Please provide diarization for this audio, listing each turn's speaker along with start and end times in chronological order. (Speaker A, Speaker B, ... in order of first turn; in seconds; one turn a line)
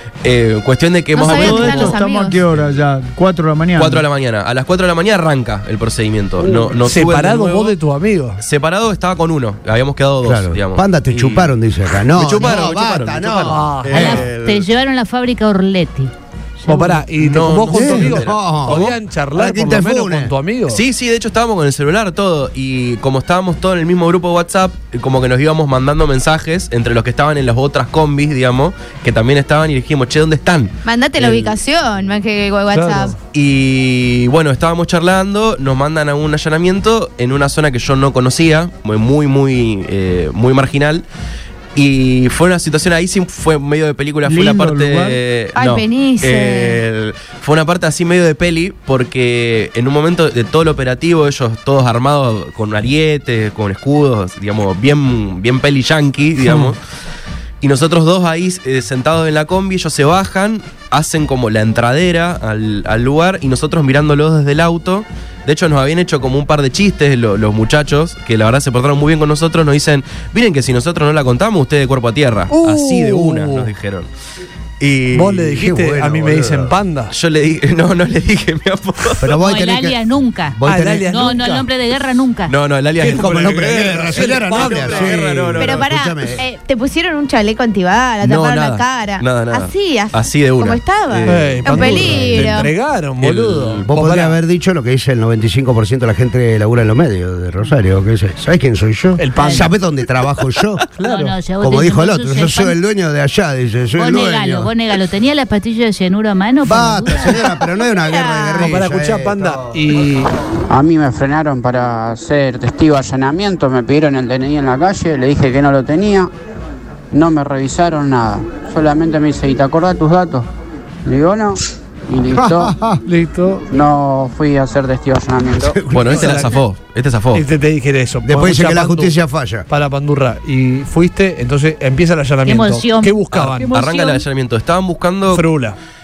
Speaker A: 0.2-2.0
Speaker B: 1.1-2.4
Speaker C: 1.4-4.0
Speaker A: 3.7-7.8
Speaker D: 6.4-8.4
Speaker A: 8.4-11.6
Speaker E: 10.2-14.3
Speaker A: 12.1-14.7
Speaker D: 13.4-14.1
Speaker F: 13.9-17.1
Speaker D: 16.7-20.8
Speaker A: 17.2-19.0
Speaker E: 17.7-20.3
Speaker A: 20.7-31.6
Speaker B: 30.8-33.1
Speaker D: 32.7-33.1
Speaker A: 33.3-41.0
Speaker A: 41.7-56.8
Speaker C: 44.2-45.2
Speaker B: 45.5-46.8
Speaker D: 56.4-56.7
Speaker A: 57.6-74.1
Speaker D: 72.5-73.7
Speaker A: 74.8-75.3
Speaker D: 75.1-77.1
Speaker E: 75.3-76.7
Speaker A: 77.1-79.3
Speaker E: 79.2-81.1
Speaker F: 79.3-80.6
Speaker D: 80.6-81.7
Speaker F: 81.1-82.5
Speaker A: 82.5-83.5
Speaker D: 83.0-85.8
Speaker E: 83.1-86.4
Speaker B: 85.5-92.7
Speaker A: 88.2-91.6
Speaker D: 91.2-94.4
Speaker E: 92.1-92.4
Speaker A: 93.2-93.9
Speaker E: 93.8-100.8
Speaker D: 99.2-99.7
Speaker F: 99.3-99.7
Speaker D: 101.0-101.3
Speaker F: 101.0-102.8
Speaker E: 101.6-104.7
Speaker F: 104.0-107.6
Speaker E: 106.6-109.8
Speaker B: 107.8-108.7
Speaker D: 108.6-110.3
Speaker G: 110.7-116.3
Speaker G: 117.1-120.5
Speaker G: 121.0-122.8
Speaker E: 122.3-123.0
Speaker D: 123.0-123.6
Speaker G: 123.7-125.8
Speaker E: 125.6-126.4
Speaker A: 125.9-127.5
Speaker D: 126.0-126.6
Speaker D: 127.3-129.2
Speaker E: 128.2-129.7
Speaker D: 129.7-133.7
Speaker F: 132.4-134.2
Speaker A: 133.3-135.5
Speaker D: 135.3-135.8